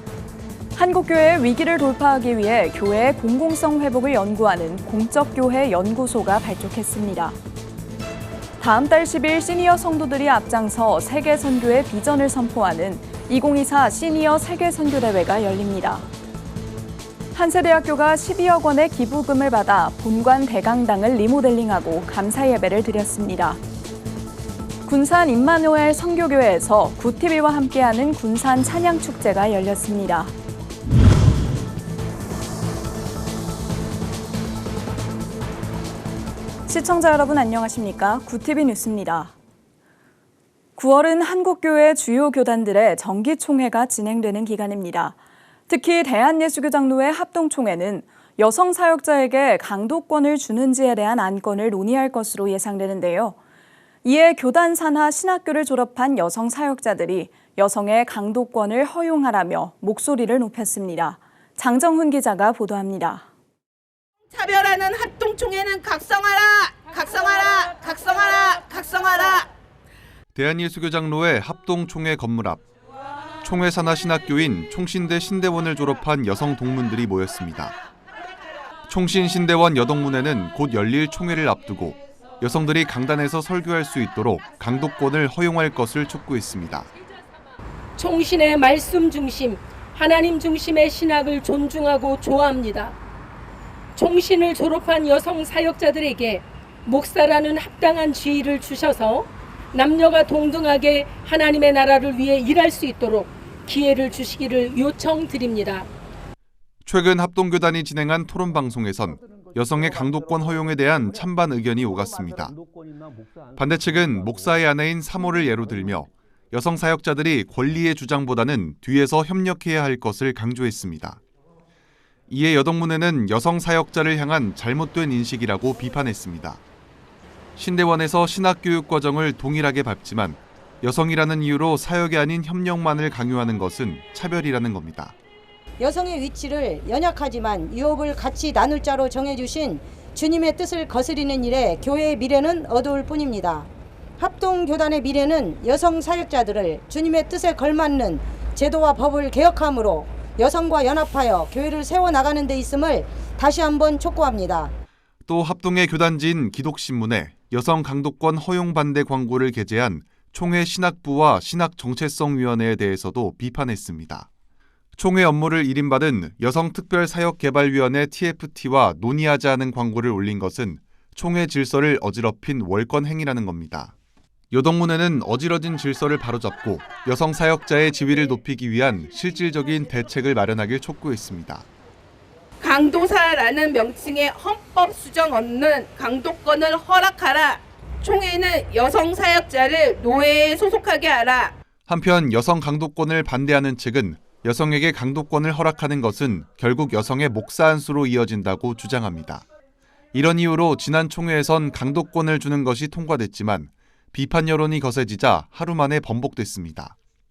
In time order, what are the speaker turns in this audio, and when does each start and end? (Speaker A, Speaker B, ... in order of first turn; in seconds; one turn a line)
Speaker A: 0.8-7.4
Speaker A: 8.6-16.1
Speaker A: 17.3-23.6
Speaker A: 24.9-30.3
Speaker A: 36.7-39.3
Speaker A: 40.8-45.2
Speaker A: 45.7-53.4
Speaker A: 54.0-63.2
Speaker B: 64.3-69.5
Speaker C: 70.3-72.6
Speaker C: 73.4-77.8
Speaker C: 78.9-86.9
Speaker D: 88.0-92.9
Speaker D: 93.9-105.9
Speaker C: 106.8-112.6
Speaker C: 113.5-121.2
Speaker C: 122.3-126.6
Speaker C: 127.6-135.1
Speaker E: 135.8-154.7
Speaker C: 155.3-164.3
Speaker C: 165.0-173.9
Speaker C: 174.5-181.7
Speaker B: 182.6-191.5
Speaker C: 191.9-199.4
Speaker C: 200.1-206.9